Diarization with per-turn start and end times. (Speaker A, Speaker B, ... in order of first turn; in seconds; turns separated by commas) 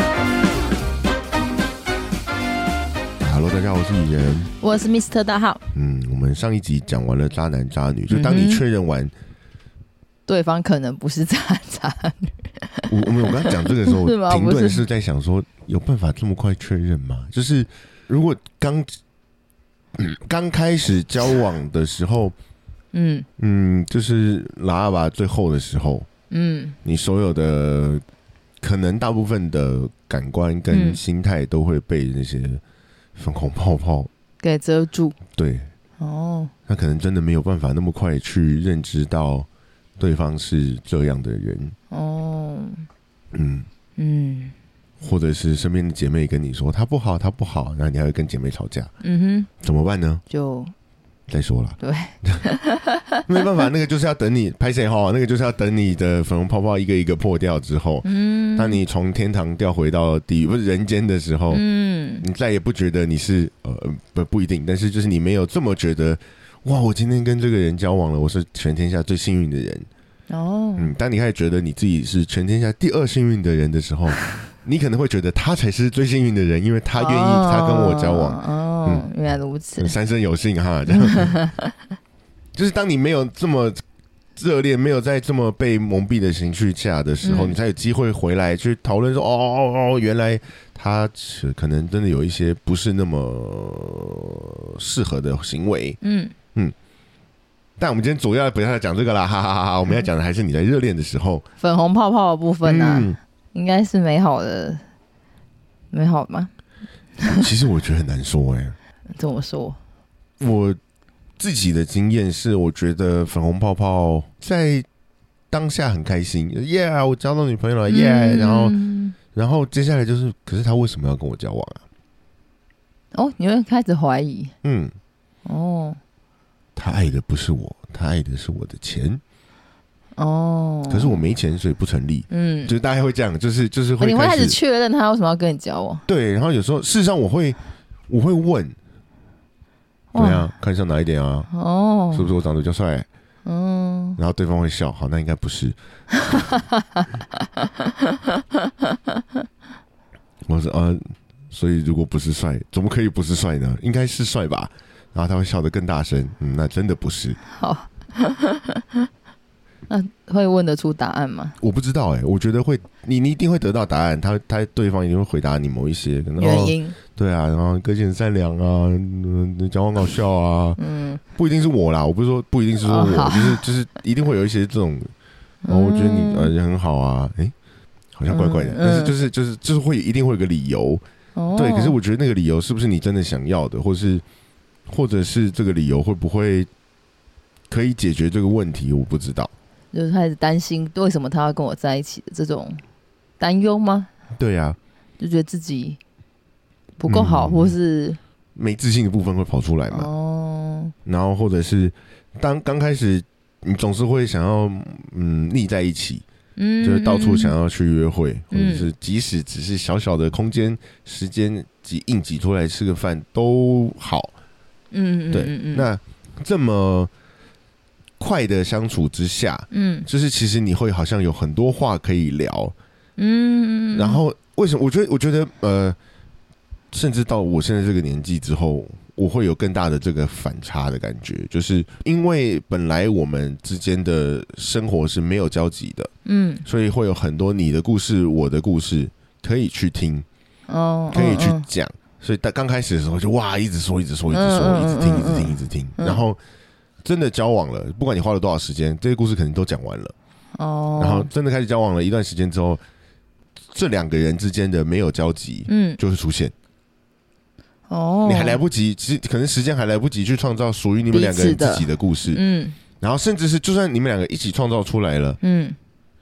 Speaker A: 3.2-4.5, Speaker B: 4.6-5.6, Speaker A: 5.7-9.1, Speaker B: 8.1-8.6, Speaker B: 10.3-12.9, Speaker A: 12.9-19.0, Speaker B: 13.9-14.8, Speaker A: 20.0-22.3, Speaker B: 22.9-23.3, Speaker A: 23.4-26.1, Speaker B: 26.3-26.8, Speaker A: 26.8-28.0, Speaker A: 28.6-32.6, Speaker B: 30.7-31.0, Speaker A: 33.2-34.1, Speaker B: 34.4-35.2, Speaker A: 35.4-35.7, Speaker B: 36.0-36.5, Speaker A: 36.7-39.5, Speaker A: 40.0-41.8, Speaker B: 41.9-42.9, Speaker A: 43.3-43.7, Speaker B: 44.0-44.5, Speaker A: 45.0-48.9, Speaker B: 49.0-49.5, Speaker A: 49.6-50.2, Speaker B: 50.3-50.7, Speaker A: 51.3-52.4, Speaker B: 51.8-53.2, Speaker A: 53.3-61.6, Speaker B: 58.0-58.8, Speaker B: 61.5-62.2, Speaker A: 62.2-69.9, Speaker B: 70.3-70.9, Speaker A: 70.8-79.1, Speaker B: 77.0-79.9, Speaker A: 79.8-81.3, Speaker B: 80.9-81.7, Speaker A: 82.5-83.8, Speaker A: 84.4-96.0, Speaker B: 87.2-87.6, Speaker B: 96.0-96.3, Speaker A: 97.8-101.5, Speaker B: 101.6-104.8, Speaker A: 102.6-103.2, Speaker B: 105.9-106.5, Speaker A: 107.4-108.8, Speaker B: 109.1-109.8, Speaker A: 110.4-110.8, Speaker A: 111.4-114.9, Speaker A: 115.5-118.8, Speaker B: 117.9-119.2, Speaker A: 119.3-121.8, Speaker B: 123.1-124.5, Speaker A: 124.6-124.9, Speaker B: 125.5-126.0, Speaker A: 126.8-129.2, Speaker B: 130.2-131.2, Speaker A: 130.9-134.6, Speaker B: 132.3-132.7, Speaker B: 134.0-136.0, Speaker A: 136.1-137.6, Speaker A: 138.1-138.8, Speaker B: 140.1-140.5, Speaker A: 140.2-141.5, Speaker B: 141.5-142.3, Speaker A: 142.1-143.1, Speaker B: 143.4-144.2, Speaker A: 144.2-145.8, Speaker B: 146.3-149.4, Speaker A: 150.5-157.4, Speaker B: 157.5-159.1, Speaker B: 159.9-161.6, Speaker A: 161.6-170.8, Speaker B: 166.4-167.0, Speaker B: 170.8-171.2, Speaker A: 171.3-175.1, Speaker B: 172.8-173.6, Speaker B: 175.6-176.5, Speaker A: 175.7-177.5, Speaker A: 178.2-181.0, Speaker B: 178.3-179.1, Speaker B: 181.4-182.0, Speaker A: 181.6-184.2, Speaker A: 184.9-186.7, Speaker A: 187.7-189.5, Speaker B: 189.9-192.8, Speaker B: 193.4-194.1, Speaker A: 194.4-194.8, Speaker B: 195.2-196.0, Speaker B: 197.0-198.2, Speaker A: 197.1-197.7, Speaker A: 198.6-200.1, Speaker B: 199.9-200.9, Speaker A: 201.1-206.2, Speaker B: 206.6-207.5, Speaker A: 206.8-214.3, Speaker B: 208.5-208.9, Speaker B: 214.9-215.9, Speaker A: 215.3-217.1, Speaker A: 218.2-222.7, Speaker B: 219.7-220.1, Speaker B: 223.2-224.2, Speaker A: 223.9-226.0, Speaker A: 226.9-236.1, Speaker B: 236.2-236.7, Speaker A: 236.7-240.3, Speaker B: 240.7-241.7, Speaker A: 241.1-246.4, Speaker B: 244.3-246.2, Speaker A: 247.0-250.1, Speaker B: 250.6-251.3, Speaker A: 251.0-252.8, Speaker A: 253.7-256.5, Speaker B: 255.7-256.0, Speaker B: 257.9-258.6, Speaker A: 258.2-262.4, Speaker B: 261.1-262.8, Speaker A: 263.0-265.4, Speaker B: 265.4-265.8